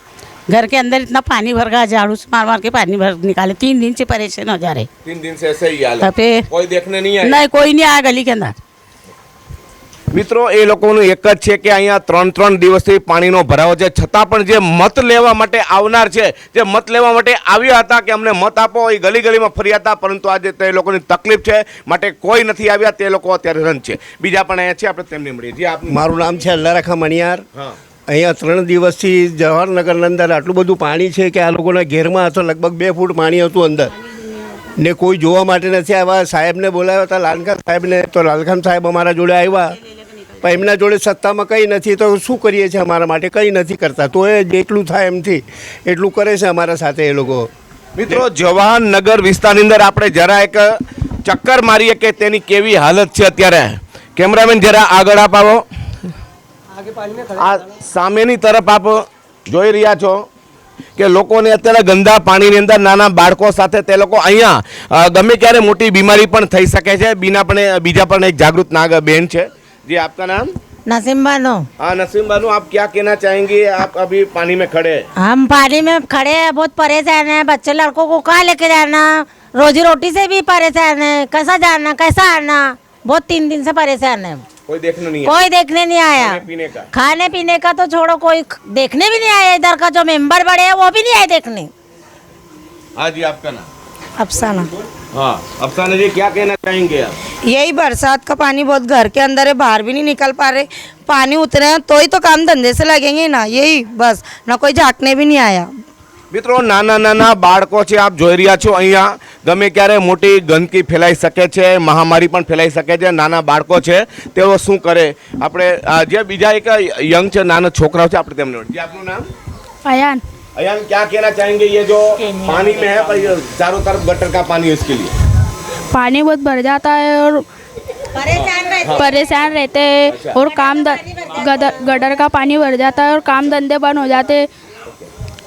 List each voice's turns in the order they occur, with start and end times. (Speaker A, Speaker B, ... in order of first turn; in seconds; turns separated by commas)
Speaker A: 0.5-4.9, Speaker B: 5.0-7.4, Speaker A: 6.0-6.4, Speaker A: 7.2-8.6, Speaker B: 10.1-26.3, Speaker C: 25.9-27.4, Speaker C: 28.1-33.9, Speaker C: 34.8-39.8, Speaker C: 40.4-47.5, Speaker B: 48.0-50.7, Speaker B: 51.2-55.6, Speaker B: 57.3-60.2, Speaker B: 61.0-70.5, Speaker D: 70.9-71.7, Speaker B: 71.8-75.1, Speaker D: 75.2-84.4, Speaker B: 84.7-85.5, Speaker D: 85.2-86.4, Speaker B: 86.1-86.9, Speaker D: 86.9-91.7, Speaker B: 93.0-93.7, Speaker E: 94.2-94.7, Speaker B: 95.1-97.1, Speaker E: 97.5-105.7, Speaker B: 106.3-119.3, Speaker F: 119.8-120.2, Speaker B: 120.6-125.1, Speaker F: 125.9-127.4, Speaker D: 128.2-129.0, Speaker B: 128.3-129.1, Speaker F: 128.9-134.5, Speaker B: 130.1-130.4, Speaker D: 130.4-132.0